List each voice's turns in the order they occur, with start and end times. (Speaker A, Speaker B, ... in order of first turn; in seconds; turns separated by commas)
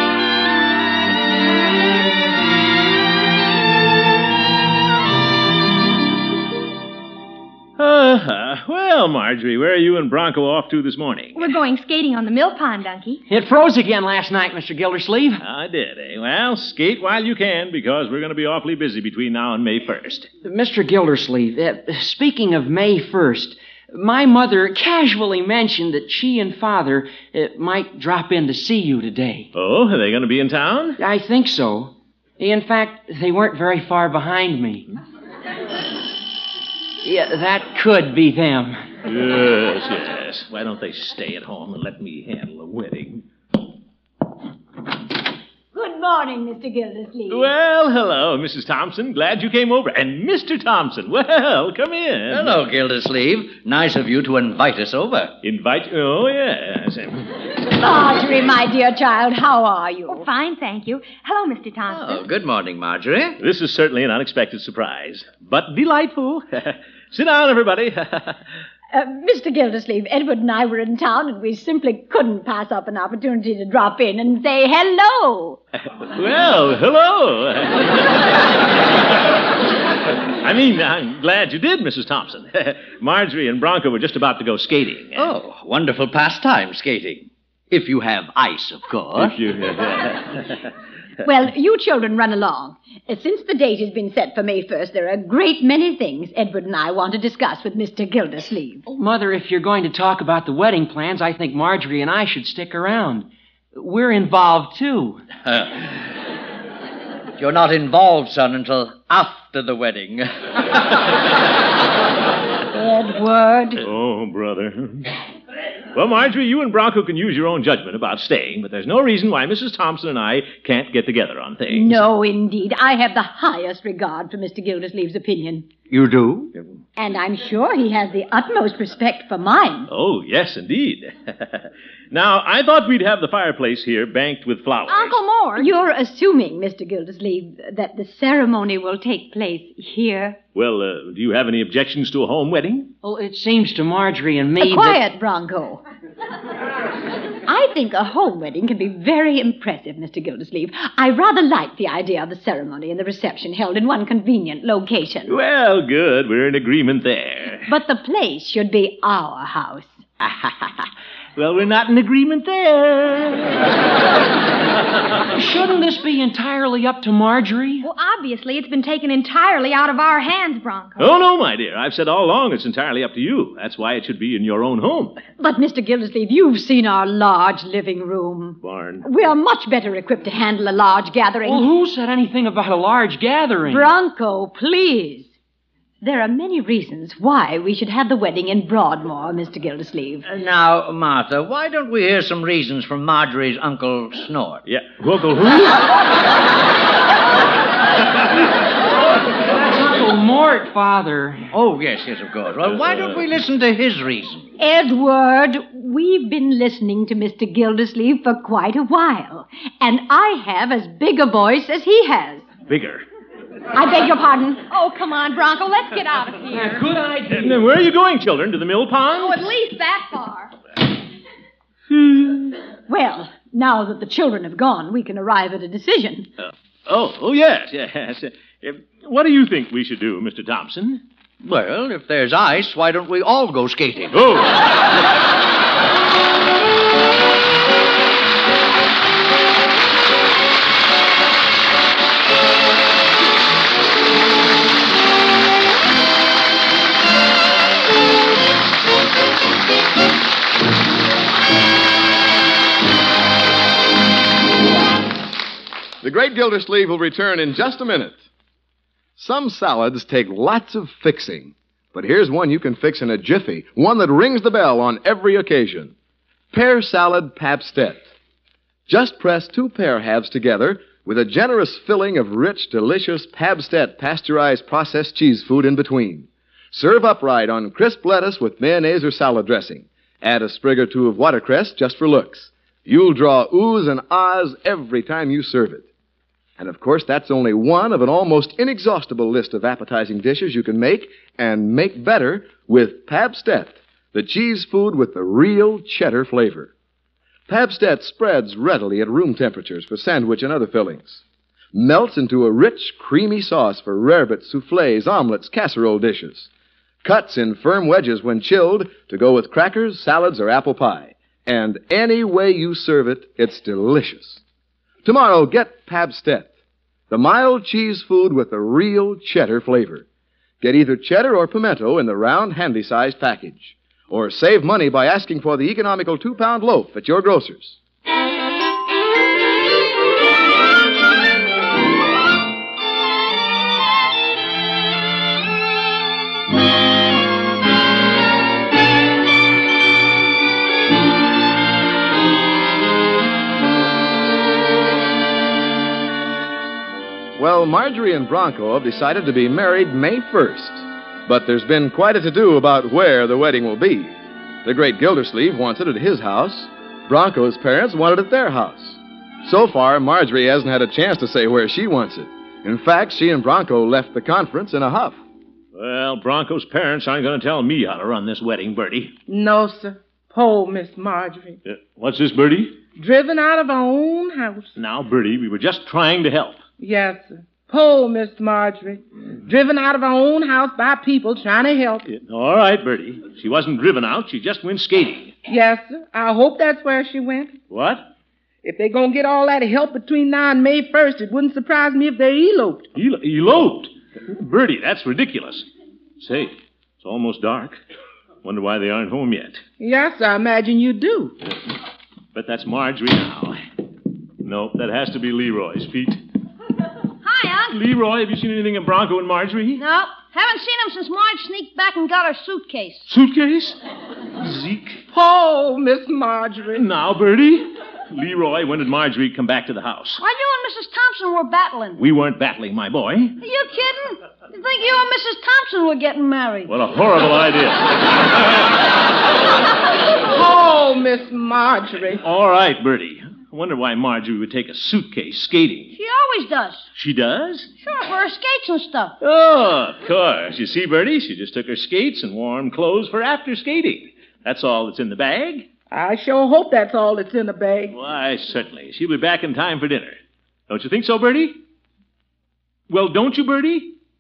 Speaker A: 7.8-11.5, Speaker B: 11.3-13.2, Speaker C: 13.3-15.4, Speaker A: 15.4-20.3, Speaker C: 20.4-29.5, Speaker A: 29.5-31.0, Speaker C: 31.0-34.9, Speaker C: 37.0-38.8, Speaker A: 39.0-43.2, Speaker D: 45.7-47.5, Speaker A: 47.3-52.6, Speaker E: 52.3-55.4, Speaker A: 55.4-57.3, Speaker D: 57.7-60.3, Speaker B: 60.1-62.2, Speaker E: 61.9-63.4, Speaker A: 63.4-68.4, Speaker D: 68.9-75.6, Speaker A: 76.1-78.4, Speaker A: 80.4-85.3, Speaker E: 85.2-89.4, Speaker A: 89.2-90.6, Speaker D: 91.2-98.8, Speaker C: 98.9-105.2, Speaker E: 105.5-106.0, Speaker E: 107.4-111.1, Speaker D: 112.7-113.8, Speaker A: 113.8-115.1, Speaker A: 115.9-122.0, Speaker D: 121.7-125.7, Speaker E: 125.9-126.5, Speaker D: 127.0-129.9, Speaker A: 129.9-135.2, Speaker B: 134.9-135.7, Speaker D: 135.6-140.4, Speaker A: 140.6-142.9, Speaker C: 143.0-145.0, Speaker D: 144.6-145.8, Speaker D: 147.5-155.3, Speaker A: 155.3-157.7, Speaker D: 157.7-160.1, Speaker A: 161.4-163.6, Speaker C: 165.3-167.9, Speaker B: 167.8-171.1, Speaker A: 171.0-175.2, Speaker D: 175.4-181.7, Speaker A: 178.6-179.1, Speaker C: 181.4-183.9, Speaker D: 183.7-185.3, Speaker D: 186.0-190.2, Speaker E: 190.2-194.6, Speaker A: 194.7-195.8, Speaker C: 199.5-201.5, Speaker E: 201.5-204.5, Speaker A: 202.7-203.2, Speaker D: 204.6-212.5, Speaker A: 212.7-213.1, Speaker D: 213.7-214.6, Speaker B: 214.7-216.8, Speaker C: 216.5-217.7, Speaker A: 217.4-219.4, Speaker B: 219.2-220.5, Speaker A: 221.9-222.5, Speaker D: 222.9-226.3, Speaker A: 226.4-231.0, Speaker E: 231.4-234.2, Speaker A: 234.1-234.7, Speaker F: 256.0-258.2, Speaker F: 259.2-265.9, Speaker F: 266.5-268.1, Speaker F: 268.9-285.9, Speaker F: 286.6-296.7, Speaker F: 297.5-301.2, Speaker F: 301.7-306.5, Speaker F: 307.0-314.4, Speaker F: 315.0-316.5, Speaker F: 317.1-320.1, Speaker F: 320.6-327.8, Speaker F: 347.4-354.1, Speaker F: 354.6-365.2, Speaker A: 365.8-369.1, Speaker G: 369.3-371.6, Speaker A: 371.6-372.8, Speaker G: 373.0-374.7, Speaker A: 374.8-376.6, Speaker G: 376.8-382.1, Speaker A: 382.1-385.3, Speaker G: 385.5-387.6, Speaker A: 387.7-388.1, Speaker G: 388.6-392.9, Speaker A: 392.9-395.7, Speaker A: 396.2-397.8, Speaker A: 398.4-399.6, Speaker G: 399.8-401.4, Speaker A: 402.3-403.6, Speaker A: 404.4-406.2, Speaker H: 407.2-407.8, Speaker A: 407.7-409.8, Speaker H: 409.8-413.1, Speaker A: 413.1-413.8, Speaker A: 414.4-415.0, Speaker G: 415.1-416.8, Speaker A: 416.7-420.2, Speaker H: 420.2-422.0, Speaker A: 422.0-423.4, Speaker H: 423.4-426.7, Speaker A: 426.7-428.8, Speaker G: 430.3-432.2, Speaker A: 432.2-435.9, Speaker H: 435.9-436.9, Speaker A: 436.9-437.7, Speaker H: 437.8-439.1, Speaker A: 439.2-445.7, Speaker G: 445.9-447.9, Speaker A: 447.9-450.2, Speaker A: 450.7-451.6, Speaker A: 452.9-453.9